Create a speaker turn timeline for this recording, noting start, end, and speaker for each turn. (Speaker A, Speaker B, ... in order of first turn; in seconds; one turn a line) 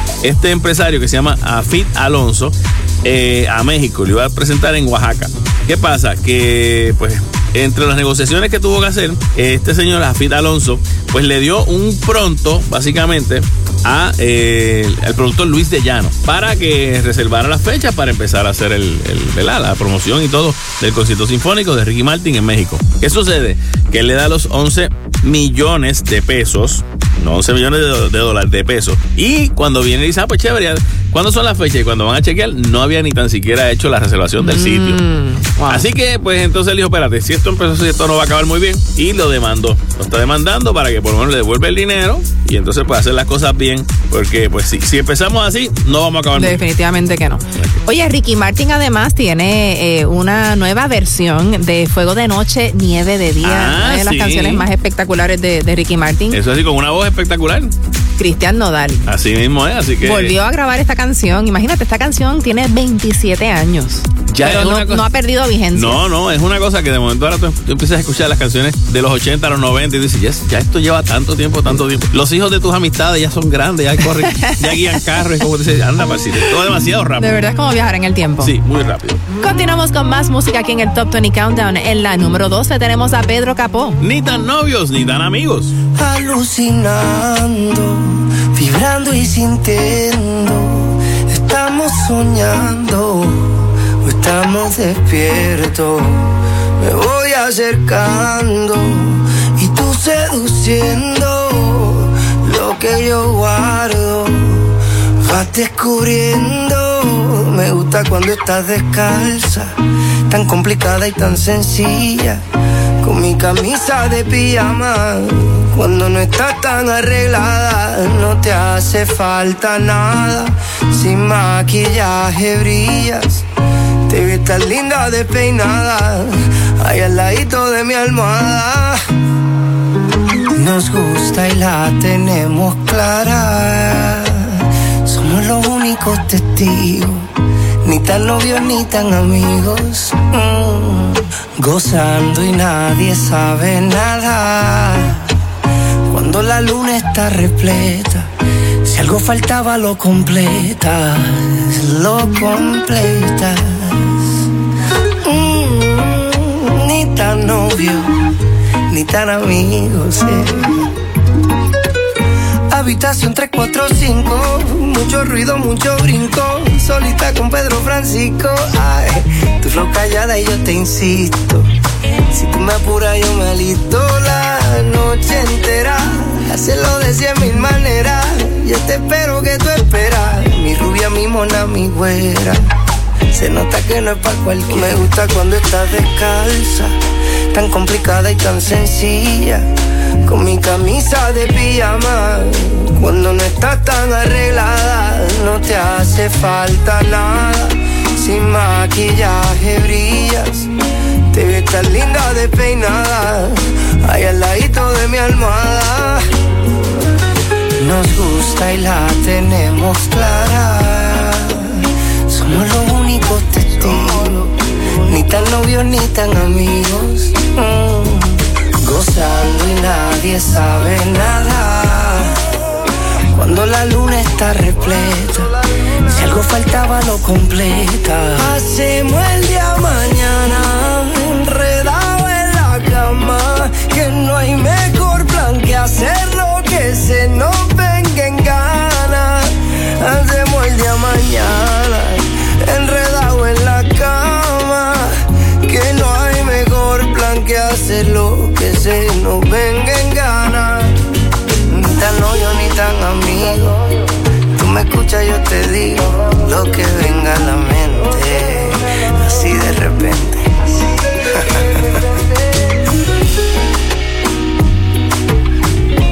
Speaker A: 0.2-35.0
Speaker B: 34.4-35.9
Speaker A: 35.7-46.6
Speaker B: 46.4-56.4
Speaker A: 47.5-47.8
Speaker A: 53.4-54.6
Speaker A: 56.3-57.7
Speaker B: 58.2-59.1
Speaker A: 59.1-60.3
Speaker B: 60.0-66.0
Speaker A: 64.3-65.0
Speaker A: 65.7-77.4
Speaker B: 74.3-74.7
Speaker B: 77.2-78.5
Speaker A: 78.4-79.2
Speaker B: 79.4-84.0
Speaker A: 84.0-85.7
Speaker C: 86.0-96.3
Speaker C: 96.8-104.6
Speaker C: 105.2-109.7
Speaker C: 110.3-112.4
Speaker C: 113.0-123.4
Speaker C: 124.1-129.0
Speaker C: 130.5-134.5
Speaker C: 135.1-137.3
Speaker C: 137.8-145.2
Speaker C: 146.1-148.3
Speaker C: 148.9-154.2
Speaker C: 155.2-158.1
Speaker C: 158.9-160.7
Speaker C: 162.7-171.7
Speaker C: 172.3-182.6
Speaker C: 183.3-186.9
Speaker C: 187.5-189.7
Speaker C: 190.2-200.7
Speaker C: 201.3-206.2
Speaker C: 207.8-211.7
Speaker C: 212.3-214.5
Speaker C: 215.1-222.3
Speaker C: 223.3-225.5
Speaker C: 226.1-250.9
Speaker C: 251.7-253.8
Speaker C: 254.5-260.7